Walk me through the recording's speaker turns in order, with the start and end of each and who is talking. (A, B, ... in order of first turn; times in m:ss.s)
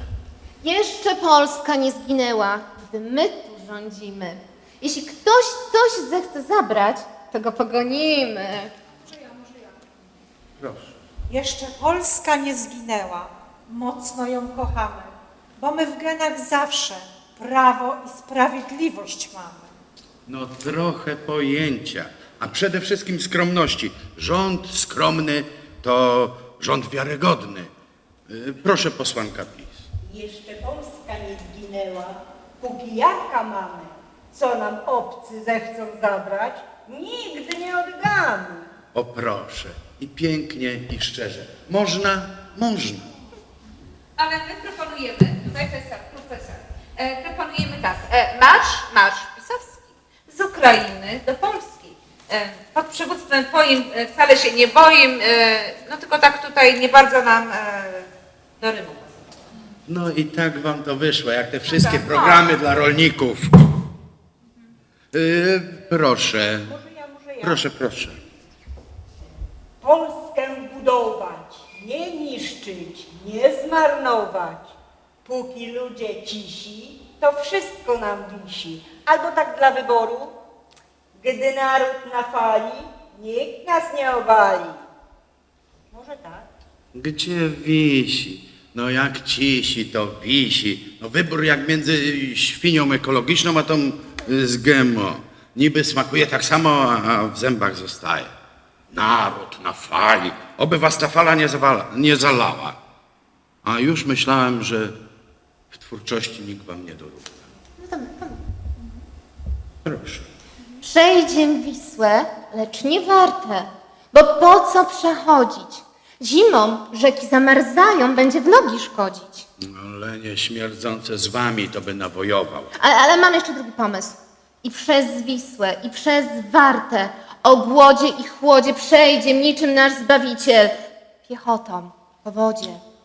0:00.6-0:08.7 A
0:09.1-0:09.7 B
0:10.6-0:11.0 C
0:11.3-0:19.7 B
0:20.2-0:27.7 C
0:28.3-0:29.8 C
0:30.0-0:38.7 D
0:38.9-0:43.1 C
0:44.2-0:58.1 E
0:58.6-0:59.1 E
0:59.9-1:03.6 C
1:01.7-1:02.5 E
1:05.1-1:06.7 C
1:06.6-1:08.1 D
1:07.4-1:08.2 C
1:09.8-1:14.7 D
1:15.2-1:20.3 D
1:21.1-1:24.8 D
1:25.9-1:26.4 D
1:26.9-1:38.3 C
1:38.9-1:42.8 C
1:43.6-1:44.9 C
1:45.7-1:47.4 C
1:47.8-1:48.4 A
1:49.8-1:50.3 C
1:50.8-1:59.4 A
1:59.6-2:02.7 C
2:02.8-2:12.8 A